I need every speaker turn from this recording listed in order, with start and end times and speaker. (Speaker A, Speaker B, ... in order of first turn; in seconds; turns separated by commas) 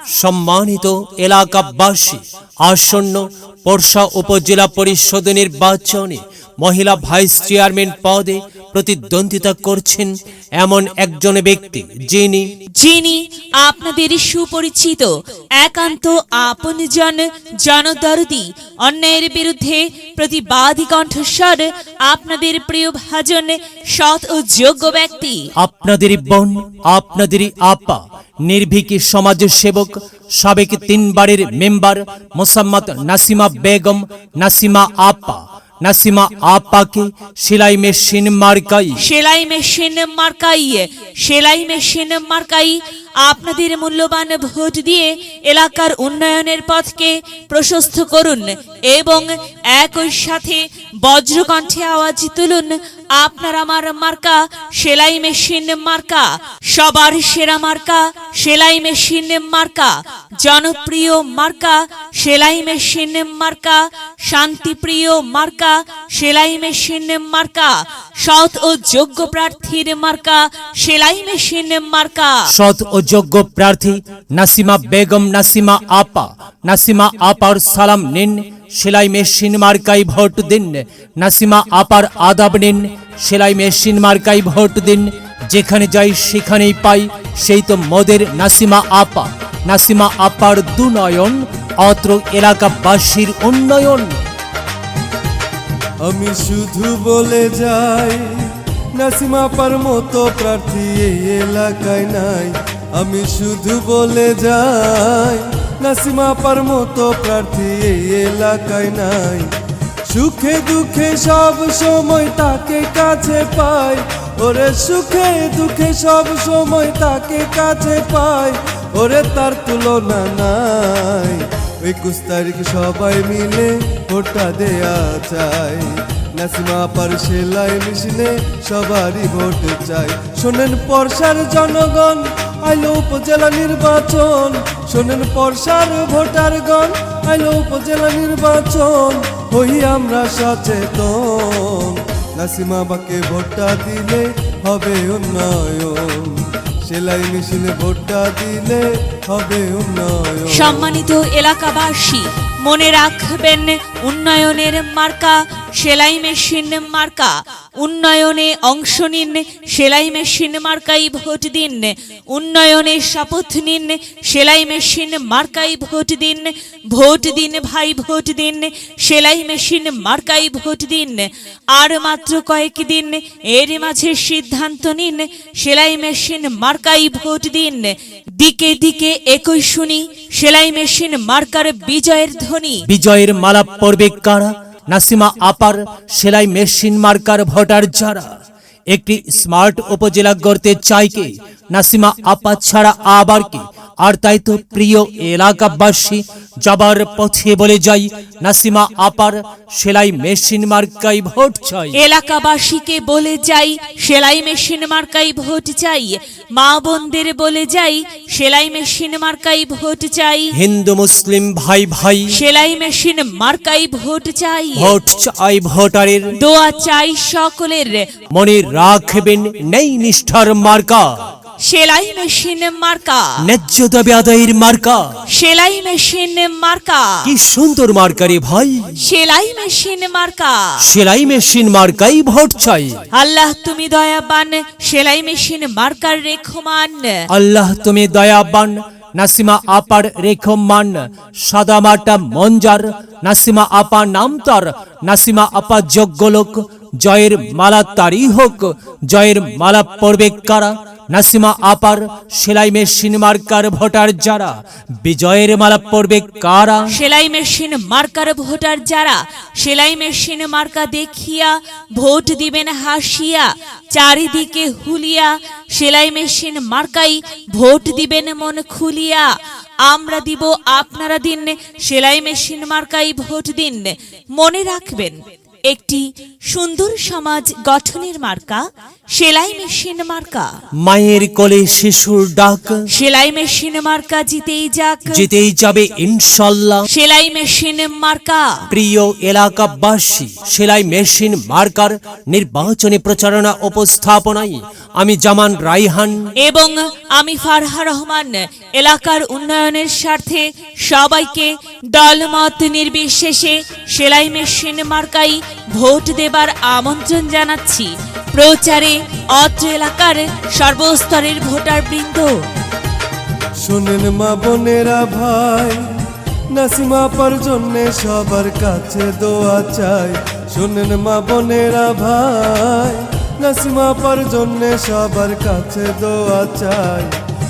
Speaker A: 0.2-12.5, Speaker B: 12.8-25.5, Speaker A: 25.6-39.0, Speaker B: 39.0-72.5, Speaker A: 72.5-94.2, Speaker C: 96.0-98.2, Speaker C: 99.0-109.5, Speaker C: 110.1-151.0, Speaker B: 150.5-182.8, Speaker A: 182.8-188.3, Speaker A: 188.9-202.0, Speaker B: 201.9-210.5, Speaker A: 210.5-212.4, Speaker B: 212.3-215.0, Speaker A: 214.8-216.3, Speaker B: 216.4-218.1, Speaker A: 218.3-221.3, Speaker B: 221.6-223.4, Speaker A: 223.4-225.0, Speaker B: 225.3-227.3, Speaker A: 227.2-228.9, Speaker B: 229.0-230.8, Speaker A: 230.8-233.0, Speaker B: 233.1-237.2, Speaker A: 237.3-256.9, Speaker B: 256.9-269.3, Speaker B: 269.9-278.6, Speaker B: 279.1-280.5, Speaker A: 280.8-282.8, Speaker B: 282.9-285.2, Speaker A: 285.1-286.9, Speaker B: 286.9-288.6, Speaker A: 288.7-296.2, Speaker B: 296.4-312.3, Speaker C: 313.6-315.8, Speaker C: 316.5-327.1